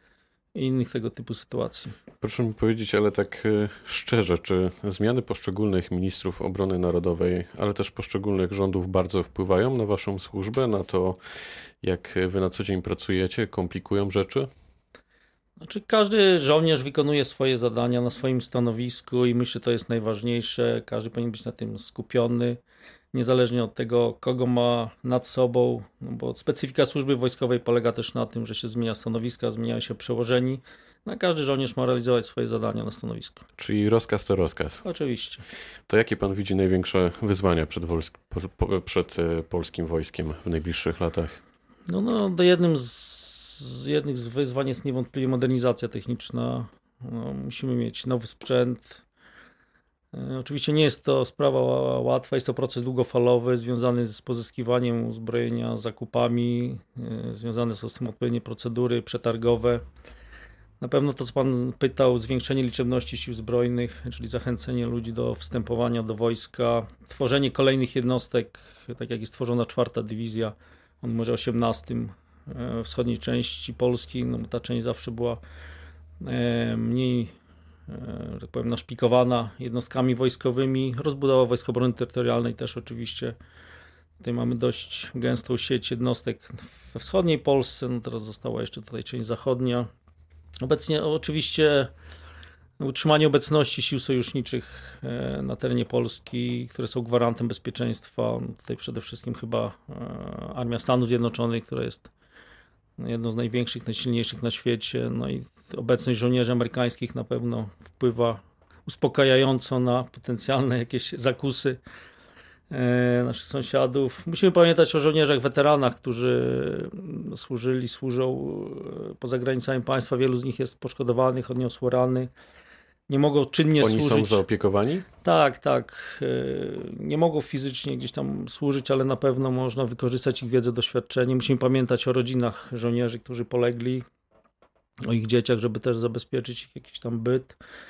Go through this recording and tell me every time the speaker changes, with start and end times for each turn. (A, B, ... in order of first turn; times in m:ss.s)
0:00.6-0:02.0 A
0:02.2-0:11.2 B
0:11.8-0:14.5 B
0:15.6-0:22.6 A
0:23.1-0:33.4 A
0:33.6-0:34.8 B
0:34.8-0:35.5 A
0:35.9-0:41.4 B
0:41.9-0:49.0 A
0:50.1-0:59.8 A
1:00.8-1:15.4 A
1:16.2-1:17.3 A
1:17.9-1:23.4 A
1:24.2-1:29.9 A
1:30.6-1:31.9 A
1:32.8-1:42.1 A
1:43.0-1:51.8 A
1:52.7-2:02.3 A
2:03.1-2:04.4 A
2:03.8-2:05.1 B
2:05.2-2:14.0 A
2:15.1-2:17.6 A